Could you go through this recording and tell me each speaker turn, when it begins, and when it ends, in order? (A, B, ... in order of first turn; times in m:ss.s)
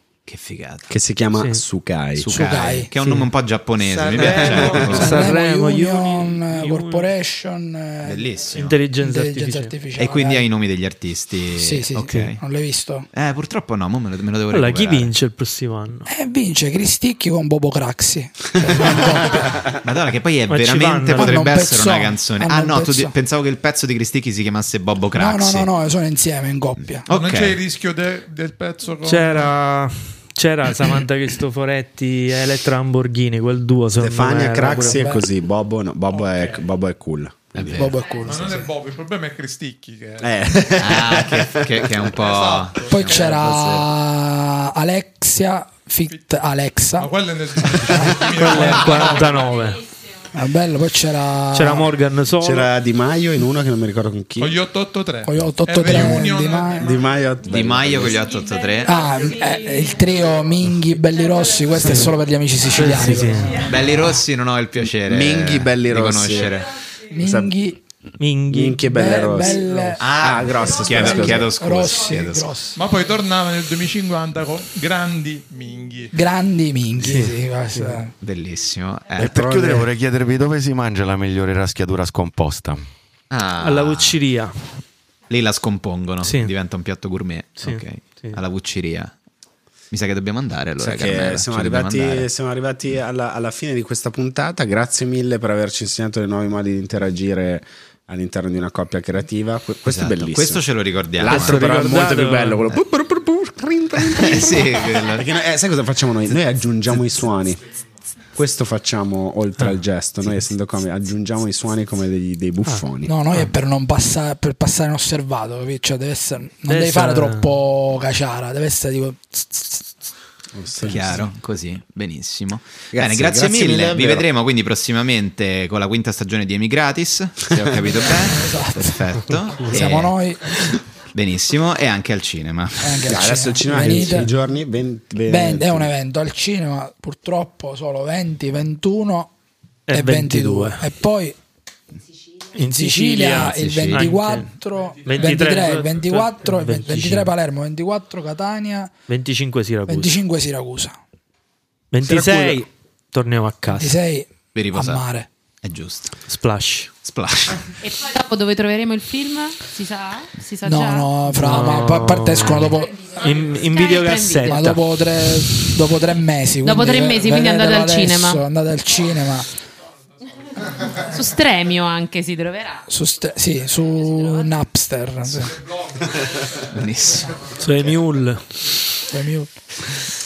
0:00.3-0:00.9 A
0:00.9-0:02.3 B
0:01.4-0:01.6 C
0:02.2-0:05.3 A
0:02.3-0:02.9 D
0:03.0-0:03.3 C
0:04.0-0:07.1 C
0:04.2-0:04.8 B
0:04.3-0:08.4 D
0:08.0-0:08.8 A
0:08.5-0:09.7 C
0:09.0-0:10.5 D
0:10.0-0:12.4 A
0:11.6-0:13.1 D
0:13.1-0:15.1 A
0:14.5-0:16.1 C
0:16.1-0:19.6 D
0:19.8-0:25.7 A
0:20.5-0:21.6 C
0:21.1-0:23.1 D
0:25.2-0:27.1 D
0:27.1-0:27.6 A
0:27.1-0:29.5 E
0:29.0-0:35.1 C
0:34.0-0:37.8 B
0:34.9-0:35.2 D
0:36.1-0:36.7 E
0:37.6-0:38.4 A
0:37.7-0:38.7 D
0:38.2-0:40.8 E
0:40.2-0:42.0 B
0:40.8-0:43.3 A
0:42.0-0:43.1 E
0:42.9-0:47.1 D
0:43.1-0:43.9 B
0:47.0-0:49.6 E
0:47.6-0:49.0 D
0:48.4-0:49.8 C
0:50.3-0:51.9 D
0:51.5-0:52.7 C
0:52.4-0:54.6 B
0:54.4-0:57.2 E
0:55.2-0:56.9 D
0:56.8-0:58.3 B
0:57.5-0:59.0 A
0:58.8-1:03.7 D
1:02.7-1:03.6 C
1:03.6-1:06.7 A
1:05.0-1:06.6 B
1:07.1-1:07.8 D
1:07.2-1:07.5 B
1:08.2-1:09.5 C
1:08.5-1:11.5 B
1:08.8-1:10.0 D
1:10.0-1:12.5 A
1:10.8-1:12.8 D
1:12.8-1:16.1 E
1:16.1-1:18.1 D
1:17.0-1:18.0 C
1:18.2-1:19.5 A
1:19.2-1:22.8 F
1:19.2-1:19.9 B
1:23.3-1:24.2 A
1:23.6-1:24.8 C
1:25.3-1:29.1 A
1:26.2-1:26.5 C
1:27.6-1:28.4 C
1:29.9-1:32.3 A
1:30.8-1:47.6 B
1:39.9-1:41.6 A
1:41.3-1:42.8 C
1:44.1-1:45.3 A
1:48.3-1:53.1 B
1:53.1-2:00.0 D
1:56.7-1:57.6 C
2:00.6-2:01.3 B
2:00.8-2:10.1 A
2:02.9-2:04.3 B
2:08.2-2:10.6 D
2:11.1-2:13.2 A
2:12.8-2:14.3 D
2:13.1-2:15.9 B
2:13.7-2:14.0 C
2:15.3-2:19.3 D
2:19.9-2:20.9 C
2:19.9-2:21.4 D
2:22.5-2:27.3 C
2:22.6-2:28.9 D
2:23.6-2:24.1 A
2:29.1-2:30.2 C
2:29.9-2:31.0 D
2:31.9-2:34.0 C
2:32.1-2:32.6 B
2:33.7-2:35.3 D
2:34.6-2:35.0 A
2:35.6-2:36.2 A
2:36.3-2:36.9 C
2:37.0-2:37.8 A
2:37.8-2:41.1 G
2:40.6-2:43.1 D
2:41.3-2:44.8 C
2:43.1-2:44.7 G
2:44.5-2:49.5 D
2:46.6-2:48.4 G
2:50.9-2:52.9 G
2:52.9-2:55.6 D
2:56.7-2:57.4 A
2:57.5-2:58.8 C
2:59.1-2:59.5 D